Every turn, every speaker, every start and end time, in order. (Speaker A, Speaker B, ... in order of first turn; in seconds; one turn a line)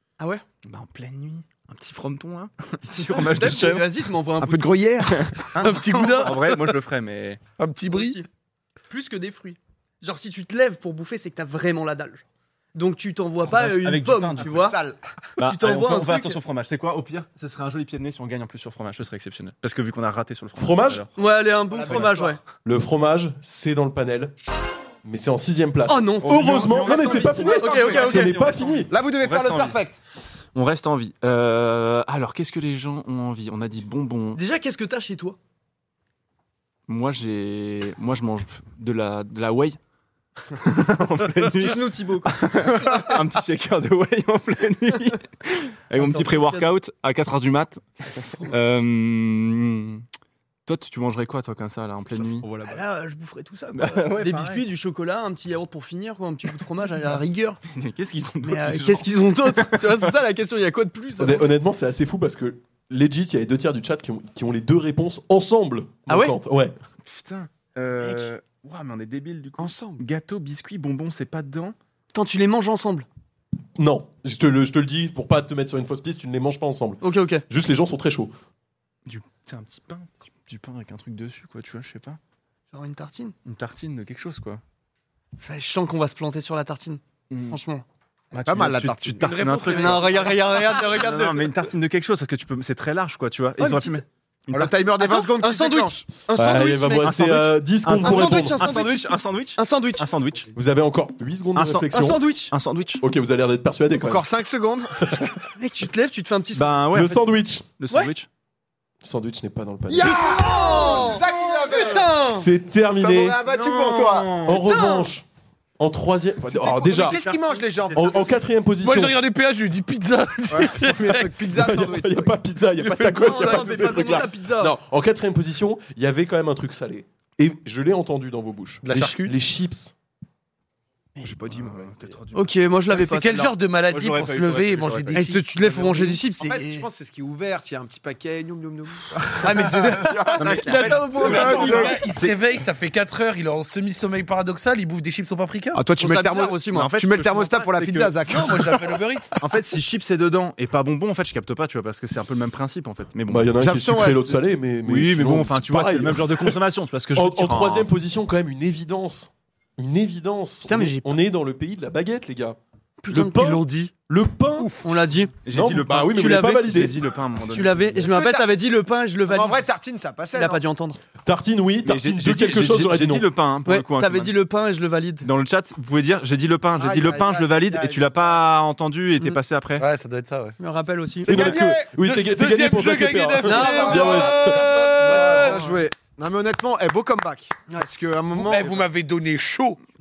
Speaker A: 0.2-0.4
Speaker B: 0.6-4.0
Speaker A: 2.9-4.7
Speaker C: 4.4-5.3
Speaker B: 5.1-7.4
Speaker D: 5.6-6.6
Speaker A: 5.7-6.3
Speaker D: 7.6-8.2
Speaker A: 7.9-8.3
Speaker A: 8.9-14.8
Speaker B: 13.4-14.7
Speaker C: 14.4-15.0
Speaker A: 15.4-16.4
Speaker B: 15.4-21.1
Speaker E: 20.6-21.0
Speaker A: 21.2-22.4
Speaker C: 21.7-22.4
Speaker E: 22.6-24.4
Speaker E: 25.0-28.9
Speaker A: 25.9-28.5
Speaker B: 26.2-29.8
Speaker C: 28.9-30.0
Speaker B: 30.6-34.4
Speaker A: 34.4-35.4
Speaker B: 36.9-39.8
Speaker B: 40.5-47.8
Speaker C: 41.6-43.0
Speaker A: 41.9-42.3
Speaker A: 46.0-46.7
Speaker B: 48.3-50.0
Speaker B: 50.7-52.5
Speaker C: 52.1-52.8
Speaker A: 52.7-57.6
Speaker B: 53.7-54.7
Speaker B: 57.7-60.1
Speaker A: 58.4-61.5
Speaker E: 61.2-66.8
Speaker A: 66.1-66.4
Speaker B: 67.0-71.8
Speaker A: 68.0-68.3
Speaker C: 69.6-70.0
Speaker A: 72.1-73.1
Speaker E: 73.8-78.3
Speaker A: 77.0-77.5
Speaker B: 79.1-82.2
Speaker A: 82.7-83.3
Speaker B: 83.5-84.6
Speaker A: 85.4-87.8
Speaker B: 87.3-87.6
Speaker B: 88.3-94.7
Speaker C: 88.3-89.3
Speaker D: 89.2-90.6
Speaker A: 89.7-91.5
Speaker A: 93.6-94.0
Speaker C: 94.5-96.0
Speaker A: 95.0-100.1
Speaker E: 96.3-98.6
Speaker B: 97.0-100.5
Speaker E: 100.5-102.2
Speaker B: 101.5-103.0
Speaker A: 101.9-102.5
Speaker E: 103.0-104.2
Speaker C: 103.9-105.2
Speaker E: 105.0-105.4
Speaker A: 105.6-106.9
Speaker B: 106.5-108.3
Speaker E: 106.9-107.7
Speaker E: 109.0-110.2
Speaker A: 109.9-112.5
Speaker C: 109.9-112.2
Speaker B: 111.2-111.8
Speaker E: 112.2-113.4
Speaker C: 113.0-114.4
Speaker B: 113.5-114.7
Speaker E: 114.4-115.2
Speaker A: 114.6-115.1
Speaker E: 115.8-117.2
Speaker C: 116.5-118.4
Speaker B: 116.7-118.3
Speaker E: 118.0-119.2
Speaker D: 118.8-121.4
Speaker C: 120.5-122.4
Speaker E: 121.5-129.9
Speaker D: 122.8-124.1
Speaker A: 123.2-124.8
Speaker D: 128.8-129.4
Speaker C: 131.2-132.2
Speaker B: 131.5-132.6
Speaker A: 132.3-133.6
Speaker D: 132.9-136.2
Speaker B: 133.9-135.3
Speaker A: 135.1-136.9
Speaker C: 136.4-142.3
Speaker A: 139.4-142.1
Speaker B: 140.4-142.3
Speaker D: 141.1-145.8
Speaker C: 145.7-149.0
Speaker A: 146.0-146.9
Speaker B: 146.7-148.5
Speaker D: 148.3-149.4
Speaker B: 149.4-153.6
Speaker E: 153.3-156.6
Speaker C: 153.6-154.5
Speaker B: 154.8-157.9
Speaker E: 157.1-162.6
Speaker A: 160.6-161.2
Speaker A: 163.0-163.9
Speaker E: 163.1-164.8
Speaker A: 164.6-165.3
Speaker B: 165.4-168.1
Speaker E: 165.5-167.0
Speaker A: 166.1-166.9
Speaker A: 167.5-169.6
Speaker C: 168.0-168.6
Speaker C: 169.3-170.6
Speaker A: 170.3-171.0
Speaker E: 171.2-173.2
Speaker B: 171.8-174.4
Speaker A: 173.7-175.3
Speaker B: 175.2-179.9
Speaker C: 176.8-178.4
Speaker D: 179.8-180.6
Speaker A: 180.6-181.4
Speaker C: 181.2-181.9
Speaker E: 181.2-184.7
Speaker D: 182.0-185.6
Speaker A: 183.4-185.8
Speaker C: 183.6-188.8
Speaker D: 188.3-189.8